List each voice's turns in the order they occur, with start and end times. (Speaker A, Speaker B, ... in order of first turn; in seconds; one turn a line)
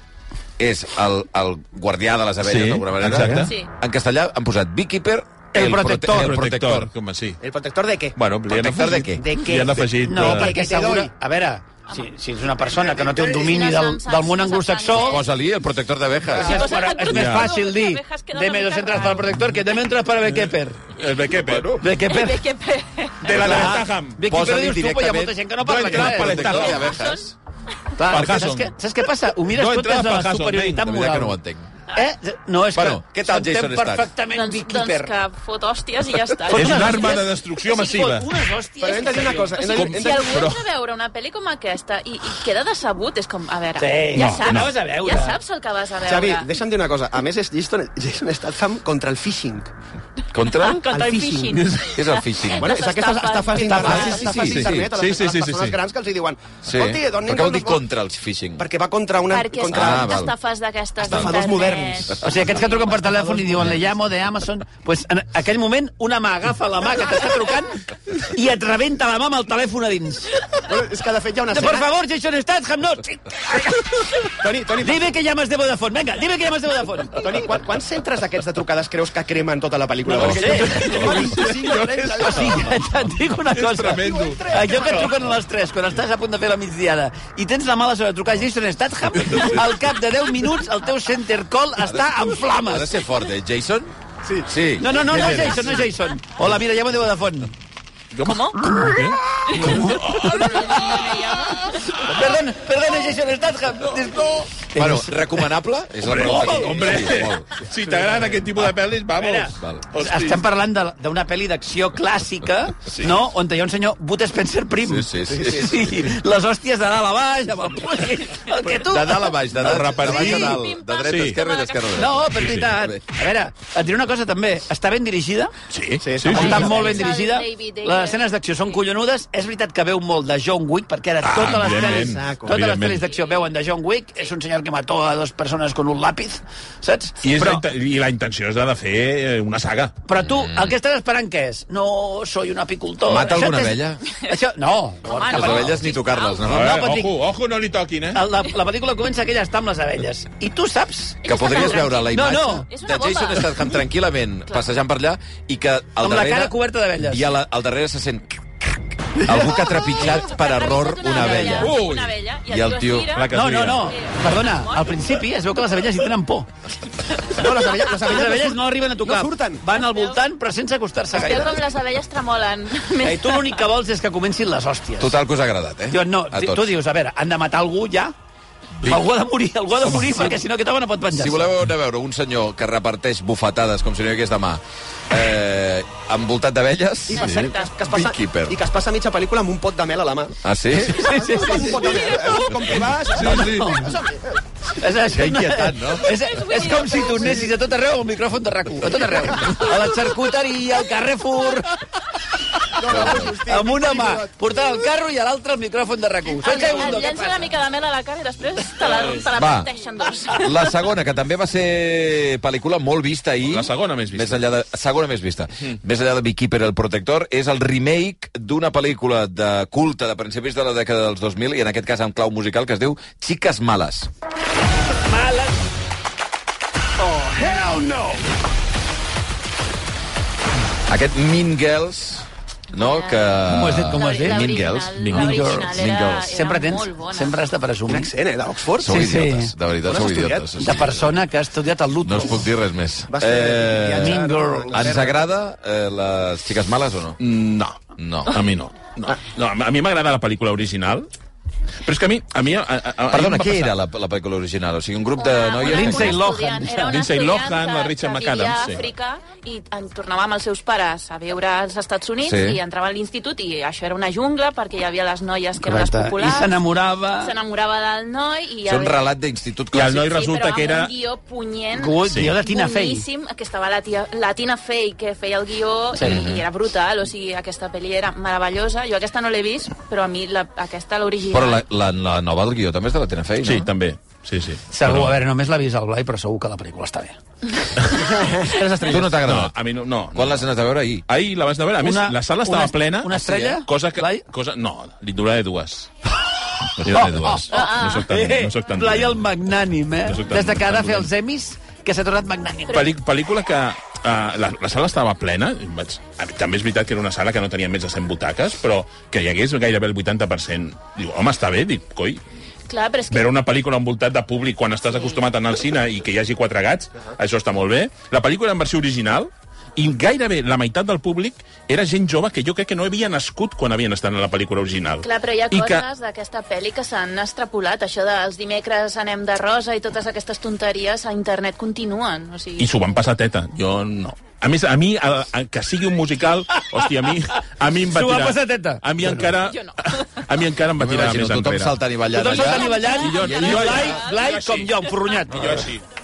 Speaker A: 0.6-6.9
Speaker B: 2.4-3.5
Speaker C: 3.4-3.7
Speaker D: 5.5-6.3
Speaker B: 5.6-7.4
Speaker E: 7.4-8.2
Speaker B: 8.2-10.5
Speaker A: 8.5-9.2
Speaker E: 9.0-11.1
Speaker D: 10.0-15.2
Speaker E: 12.8-13.4
Speaker C: 13.3-15.3
Speaker A: 15.0-16.6
Speaker D: 16.3-20.8
Speaker C: 16.4-19.4
Speaker B: 17.1-17.5
Speaker B: 20.9-21.8
Speaker A: 21.4-21.8
Speaker D: 21.8-22.4
Speaker C: 22.1-23.5
Speaker B: 23.2-24.2
Speaker D: 23.3-26.8
Speaker A: 23.4-27.3
Speaker B: 25.6-27.0
Speaker C: 26.7-27.3
Speaker D: 28.0-31.4
Speaker B: 28.1-28.7
Speaker B: 29.5-30.9
Speaker A: 30.8-31.7
Speaker D: 31.9-35.1
Speaker A: 32.7-34.1
Speaker C: 34.3-37.1
Speaker D: 36.5-39.6
Speaker B: 36.5-38.3
Speaker E: 38.8-40.5
Speaker C: 39.0-46.5
Speaker B: 39.7-40.6
Speaker D: 43.8-45.4
Speaker B: 44.1-44.7
Speaker E: 46.1-49.7
Speaker A: 50.3-50.8
Speaker C: 50.5-54.5
Speaker E: 50.9-51.7
Speaker B: 51.6-51.9
Speaker A: 51.9-52.8
Speaker E: 52.6-57.9
Speaker D: 53.5-54.5
Speaker A: 54.1-54.9
Speaker B: 54.9-55.8
Speaker A: 56.6-58.7
Speaker E: 58.6-60.3
Speaker C: 59.3-62.9
Speaker A: 59.7-60.3
Speaker A: 61.0-61.4
Speaker E: 61.0-62.2
Speaker D: 62.2-70.4
Speaker E: 70.7-71.9
Speaker D: 71.5-77.3
Speaker E: 74.2-75.1
Speaker E: 77.2-82.7
Speaker D: 80.1-81.4
Speaker A: 80.2-80.9
Speaker B: 80.2-82.7
Speaker D: 82.1-93.0
Speaker B: 83.5-84.8
Speaker E: 84.0-85.2
Speaker A: 92.6-93.9
Speaker A: 94.5-95.5
Speaker D: 94.8-97.5
Speaker B: 95.1-95.8
Speaker B: 98.1-100.8
Speaker C: 98.2-98.8
Speaker D: 98.6-101.1
Speaker C: 99.5-101.9
Speaker D: 101.9-105.5
Speaker B: 103.9-104.5
Speaker A: 104.8-107.5
Speaker B: 106.0-110.4
Speaker D: 106.1-107.3
Speaker D: 108.0-108.4
Speaker D: 109.1-120.5
Speaker A: 109.6-109.9
Speaker B: 112.9-113.2
Speaker A: 114.8-116.1
Speaker A: 118.7-123.2
Speaker B: 119.6-121.4
Speaker C: 120.3-122.1
Speaker D: 122.0-125.5
Speaker B: 122.4-122.7
Speaker B: 125.7-126.8
Speaker E: 126.0-127.1
Speaker D: 126.3-137.6
Speaker C: 126.3-128.3
Speaker B: 131.2-133.1
Speaker E: 131.4-132.6
Speaker B: 137.2-139.9
Speaker D: 140.1-145.8
Speaker A: 140.2-140.7
Speaker A: 143.1-144.1
Speaker C: 145.1-146.5
Speaker A: 145.2-146.9
Speaker B: 146.5-148.2
Speaker D: 146.5-147.1
Speaker D: 148.1-151.2
Speaker C: 151.2-153.8
Speaker A: 151.2-161.8
Speaker D: 151.8-152.7
Speaker D: 156.0-157.3
Speaker C: 159.9-165.2
Speaker D: 161.2-161.7
Speaker B: 161.5-162.1
Speaker A: 162.5-163.1
Speaker B: 163.1-163.9
Speaker D: 163.3-166.5
Speaker E: 167.3-169.7
Speaker D: 167.9-171.6
Speaker C: 169.7-170.2
Speaker C: 171.1-173.6
Speaker D: 173.0-175.2
Speaker A: 175.0-176.7
Speaker D: 175.9-178.1
Speaker D: 178.8-181.5
Speaker A: 181.1-188.6
Speaker E: 187.1-194.4
Speaker C: 187.1-187.7
Speaker A: 190.4-191.1
Speaker D: 190.8-192.2
Speaker B: 193.2-193.7
Speaker D: 193.2-194.0
Speaker D: 194.8-201.8
Speaker A: 195.1-196.2
Speaker C: 196.2-197.5
Speaker E: 202.7-204.3
Speaker D: 202.8-207.5
Speaker A: 202.8-203.3
Speaker C: 206.4-210.7
Speaker A: 209.3-209.7
Speaker A: 210.4-224.1
Speaker B: 213.4-214.5
Speaker D: 225.1-225.5
Speaker D: 227.0-228.2
Speaker A: 230.9-236.3
Speaker C: 232.7-237.4
Speaker D: 233.5-234.5
Speaker B: 235.0-235.3
Speaker D: 235.1-235.7
Speaker D: 236.3-238.1
Speaker E: 237.9-239.1
Speaker A: 238.8-241.2
Speaker D: 238.8-239.5
Speaker E: 239.8-240.5
Speaker D: 240.6-242.5
Speaker A: 242.0-247.2
Speaker E: 243.1-245.3
Speaker D: 244.0-245.0
Speaker B: 247.2-251.1
Speaker A: 248.0-248.4
Speaker B: 251.8-253.7
Speaker A: 253.1-256.2
Speaker C: 255.2-266.6
Speaker D: 255.6-257.0
Speaker B: 256.8-258.9
Speaker A: 262.2-262.6
Speaker D: 265.6-267.3
Speaker C: 267.2-269.1
Speaker A: 268.6-270.1
Speaker B: 269.7-270.9
Speaker C: 269.9-281.6
Speaker D: 271.7-273.1
Speaker B: 272.1-272.4
Speaker D: 276.0-276.2
Speaker A: 276.0-276.5
Speaker A: 281.3-283.7
Speaker B: 283.4-285.2
Speaker D: 284.7-287.2
Speaker D: 287.8-289.1
Speaker A: 288.9-289.6
Speaker B: 289.2-290.5
Speaker A: 290.1-291.1
Speaker B: 291.1-295.9
Speaker D: 291.8-294.2
Speaker B: 296.8-299.3
Speaker A: 296.8-297.4
Speaker D: 296.8-302.9
Speaker C: 297.5-298.1
Speaker B: 300.0-301.1
Speaker B: 302.7-312.2
Speaker C: 312.7-313.3
Speaker B: 313.1-325.9
Speaker C: 314.9-315.2
Speaker C: 325.0-332.8
Speaker B: 332.6-341.8
Speaker D: 336.5-337.1
Speaker D: 337.9-339.3
Speaker C: 339.4-340.2
Speaker A: 340.8-343.8
Speaker D: 342.1-345.7
Speaker C: 342.3-344.3
Speaker B: 342.9-345.9